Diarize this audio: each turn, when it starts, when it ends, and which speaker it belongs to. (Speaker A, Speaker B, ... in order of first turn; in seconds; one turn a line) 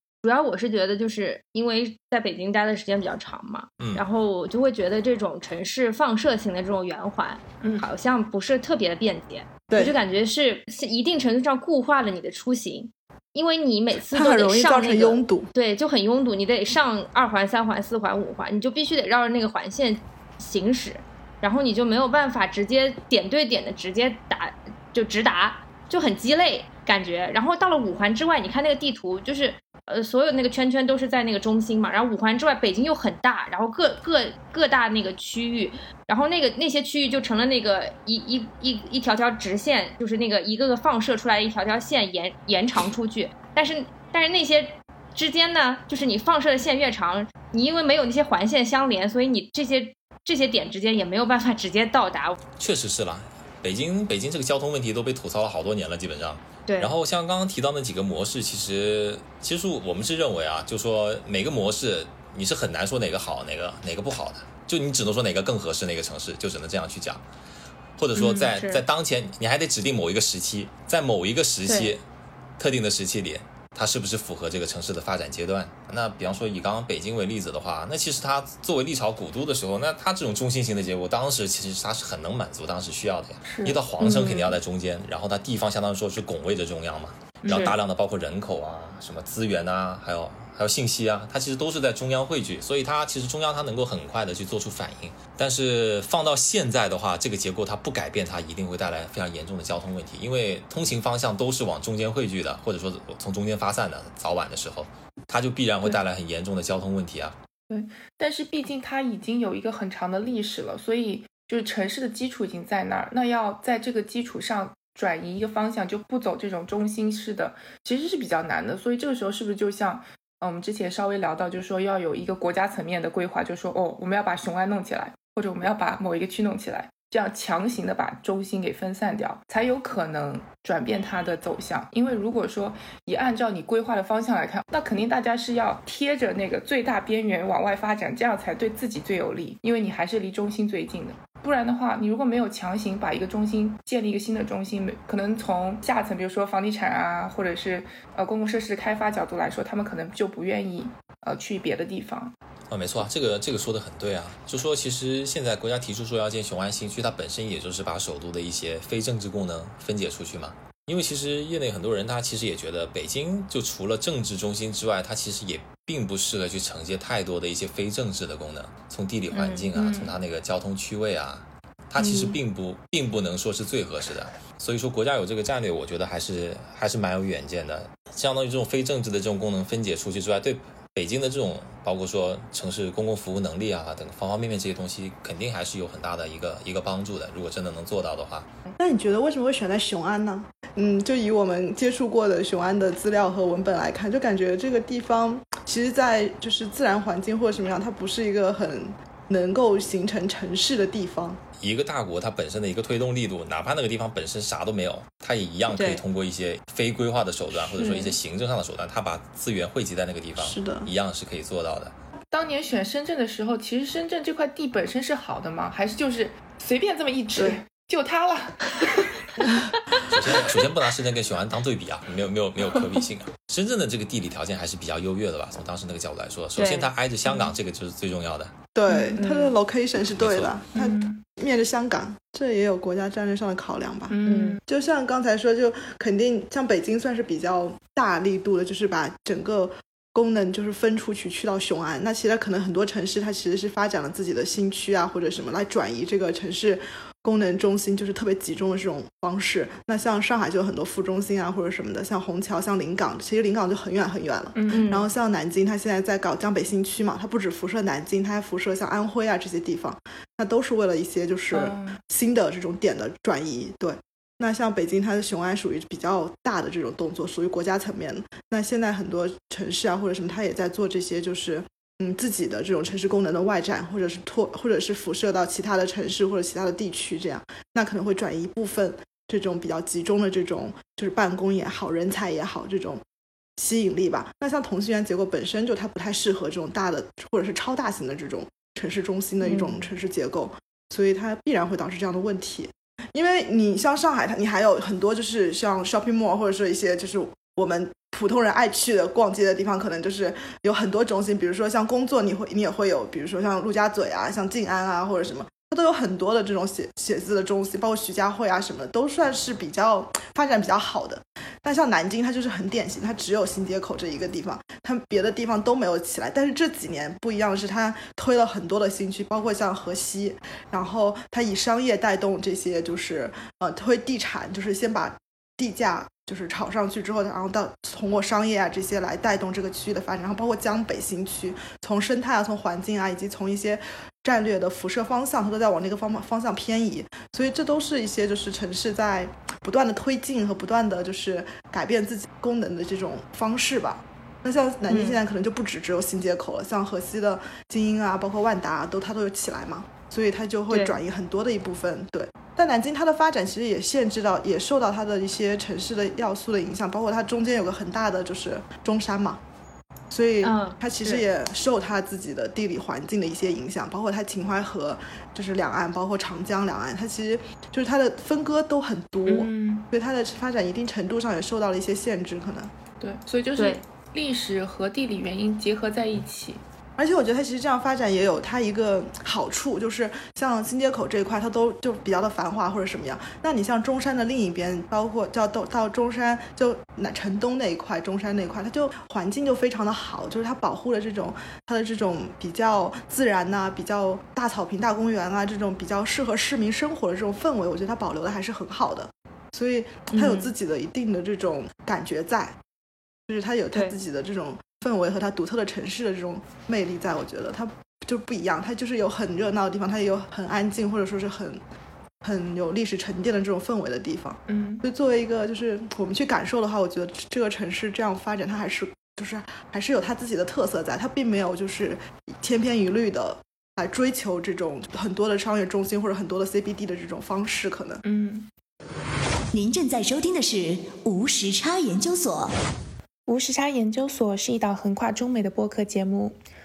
Speaker A: 0.2-52.4
Speaker B: 7.6-7.9
Speaker C: 9.7-10.0
Speaker C: 14.1-15.5
Speaker D: 52.6-67.2
Speaker A: 56.7-57.0
Speaker D: 68.0-72.0
Speaker B: 68.2-68.5
Speaker A: 68.4-68.8
Speaker A: 71.7-71.9
Speaker D: 72.6-107.4
Speaker B: 83.5-84.4
Speaker A: 84.0-84.4
Speaker B: 87.4-87.7
Speaker A: 87.5-87.7
Speaker B: 107.7-152.3
Speaker D: 152.7-188.5
Speaker A: 169.3-169.7
Speaker B: 169.8-170.2
Speaker A: 172.0-172.4
Speaker C: 188.8-201.4
Speaker D: 201.6-211.9
Speaker A: 205.7-206.0
Speaker C: 207.8-208.1
Speaker C: 210.4-210.9
Speaker B: 212.3-219.6
Speaker D: 220.1-228.5
Speaker A: 226.6-226.9
Speaker C: 228.7-283.0
Speaker B: 228.9-229.2
Speaker A: 229.2-229.5
Speaker D: 230.2-230.6
Speaker B: 230.7-231.2
Speaker B: 234.1-234.6
Speaker A: 234.2-234.6
Speaker B: 254.6-254.9
Speaker A: 254.7-255.1
Speaker B: 261.5-262.0
Speaker C: 283.6-359.4
Speaker A: 289.4-289.9
Speaker A: 344.9-345.2
Speaker A: 350.7-351.0
Speaker C: 360.1-372.7
Speaker A: 360.4-361.3
Speaker B: 369.3-369.9
Speaker B: 373.0-376.6
Speaker A: 373.6-373.8
Speaker C: 377.0-402.6
Speaker A: 400.1-400.5
Speaker C: 403.3-411.6
Speaker C: 412.2-428.0
Speaker B: 414.5-414.9
Speaker B: 428.0-428.5
Speaker E: 429.5-432.5
Speaker B: 433.3-436.4